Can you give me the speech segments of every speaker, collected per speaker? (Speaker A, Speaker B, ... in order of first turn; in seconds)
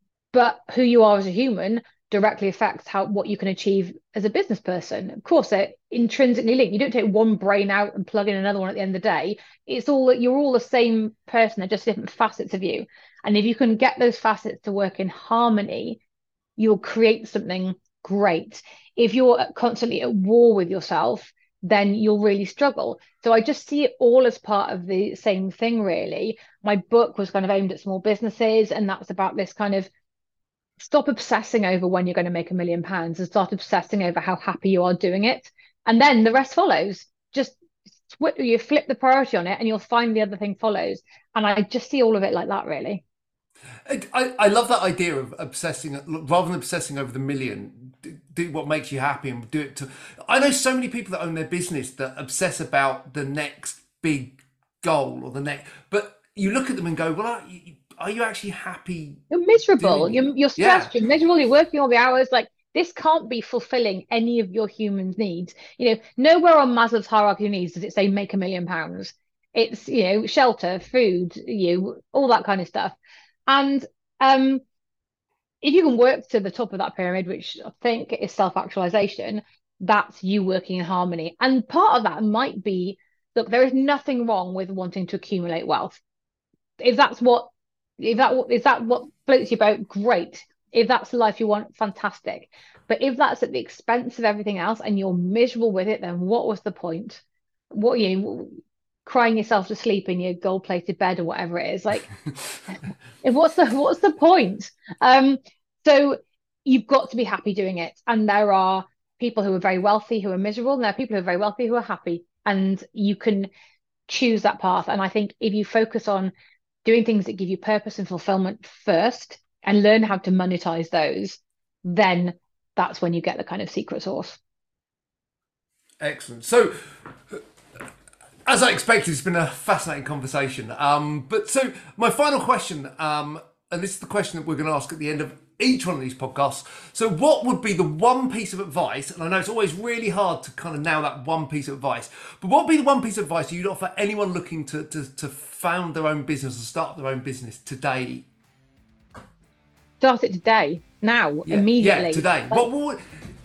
Speaker A: 0.3-16.0, 16.6-29.9, 30.8-43.0, 59.3-73.0, 73.5-74.6, 75.6-86.0, 86.8-102.1, 103.2-113.5, 114.1-116.3, 116.8-124.4, 150.0-152.7
Speaker B: 43.9-59.2, 59.8-60.9, 126.0-126.7, 128.5-148.3, 151.4-153.0